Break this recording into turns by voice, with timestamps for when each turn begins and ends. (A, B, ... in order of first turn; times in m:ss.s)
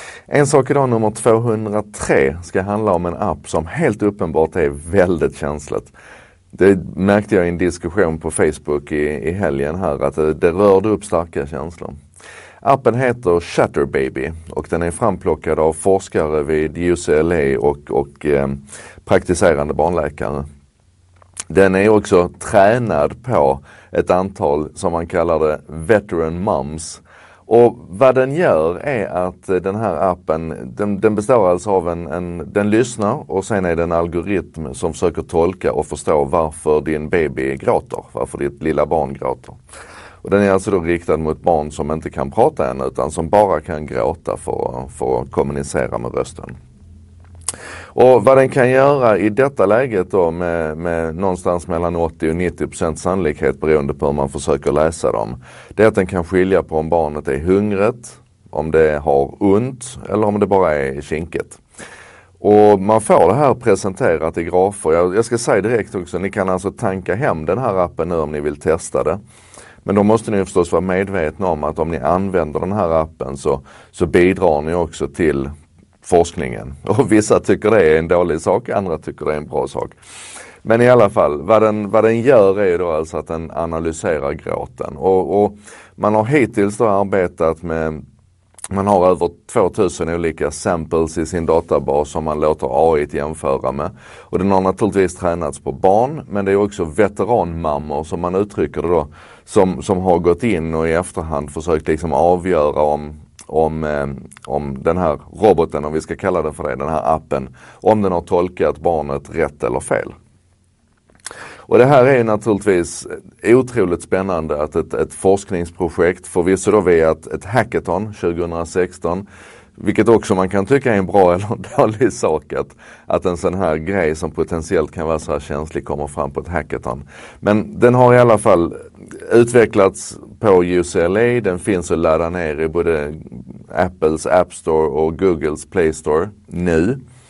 0:00.3-0:05.9 A
0:06.5-0:12.0 A
0:12.6-0:20.4 A
0:21.5-0:39.6 A
0:40.2-0:46.6 A
0:48.0-1:01.6 A
1:02.4-1:09.2 A
1:09.8-1:15.5 A
1:16.0-1:20.0 A
1:20.6-1:28.0 A
1:28.7-1:50.2 A
1:51.7-1:59.2 A
1:59.8-2:17.0 A